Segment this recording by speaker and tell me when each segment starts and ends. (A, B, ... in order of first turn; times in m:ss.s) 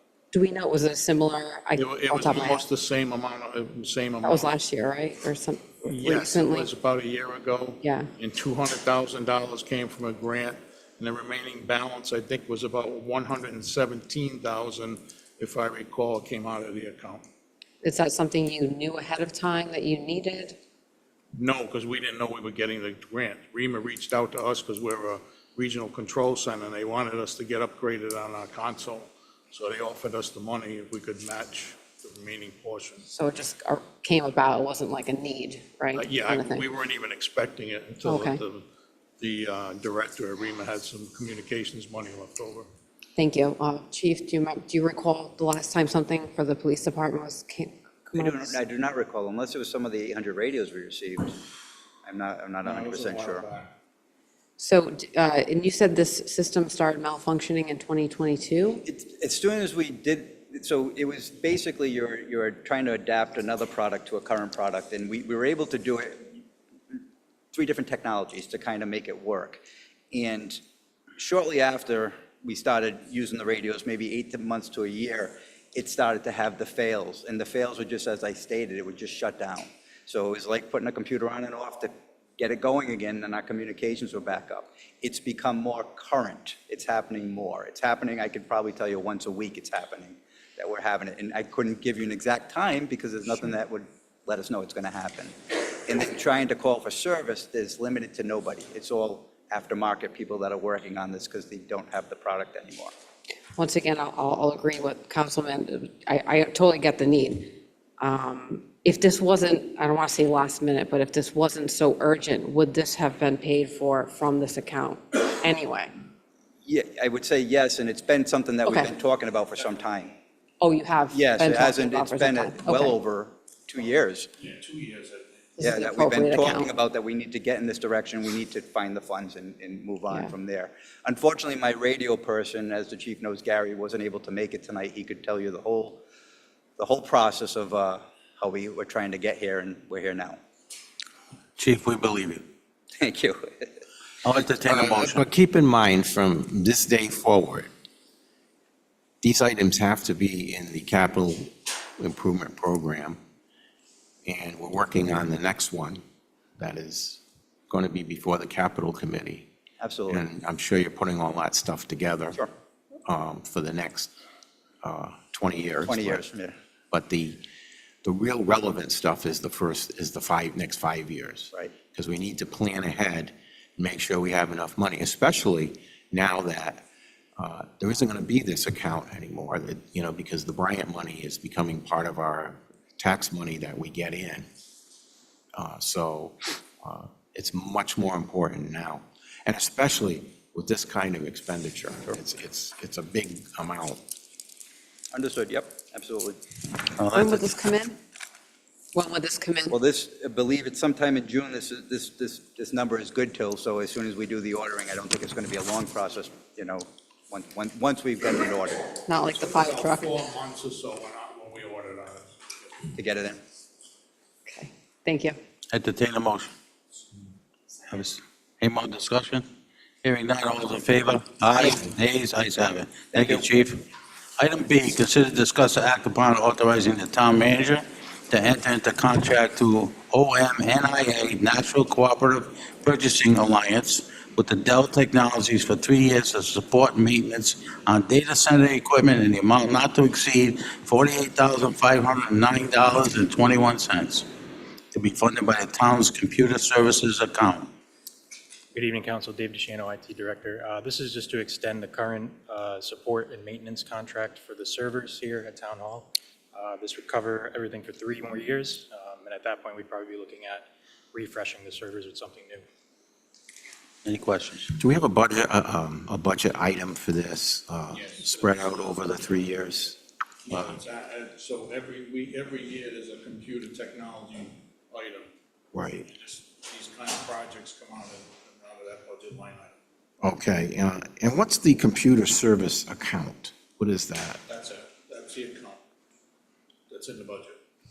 0:00.3-0:02.6 A
0:01.8-0:04.5 B
0:04.2-0:06.7 A
0:05.9-0:17.2 B
0:07.8-0:08.1 A
0:17.8-0:20.6 A
0:21.3-0:33.0 B
0:33.1-0:36.6 A
0:35.9-0:38.6 B
0:38.0-0:38.4 A
0:39.2-0:42.7 B
0:43.2-0:48.6 A
0:48.1-0:51.4 C
0:52.0-0:53.4 C
0:52.6-0:53.7 B
0:54.6-0:58.8 A
0:58.8-1:06.4 C
1:07.5-1:10.6 C
1:11.2-1:42.9 C
1:43.6-1:55.9 A
1:56.6-2:00.1 C
1:58.6-1:58.9 A
2:00.6-2:03.0 A
2:01.1-2:04.3 C
2:04.4-2:05.6 B
2:05.6-2:06.7 A
2:05.6-2:16.0 C
2:16.8-2:20.4 C
2:21.6-2:22.4 D
2:23.0-2:23.7 C
2:24.2-2:25.2 D
2:24.6-2:27.7 E
2:29.2-2:33.2 E
2:34.2-2:36.0 E
2:36.6-2:39.5 E
2:39.8-2:40.2 C
2:40.1-2:42.4 E
2:43.1-2:44.1 E
2:44.8-2:46.2 E
2:45.8-2:46.5 C
2:46.9-2:47.4 E
2:48.0-2:56.8 E
2:57.4-3:04.5 E
3:05.5-3:14.0 E
3:15.1-3:16.4 C
3:17.0-3:17.5 D
3:17.1-3:18.0 A
3:18.9-3:19.8 A
3:19.7-3:28.9 C
3:29.0-3:30.2 A
3:29.2-3:32.9 B
3:33.0-3:33.4 C
3:34.5-3:35.4 A
3:35.7-3:36.5 D
3:37.9-3:39.4 D
3:40.0-3:43.8 D
3:43.1-3:43.5 C
3:44.4-4:04.3 D
4:04.9-4:07.7 D
4:08.7-4:22.6 F
4:24.0-4:24.7 D
4:24.8-4:30.8 E
4:27.9-4:29.1 B
4:30.4-4:35.3 B
4:35.7-4:36.1 E
4:36.1-4:39.7 B
4:40.2-4:44.4 E
4:44.4-4:45.8 B
4:46.9-4:47.6 B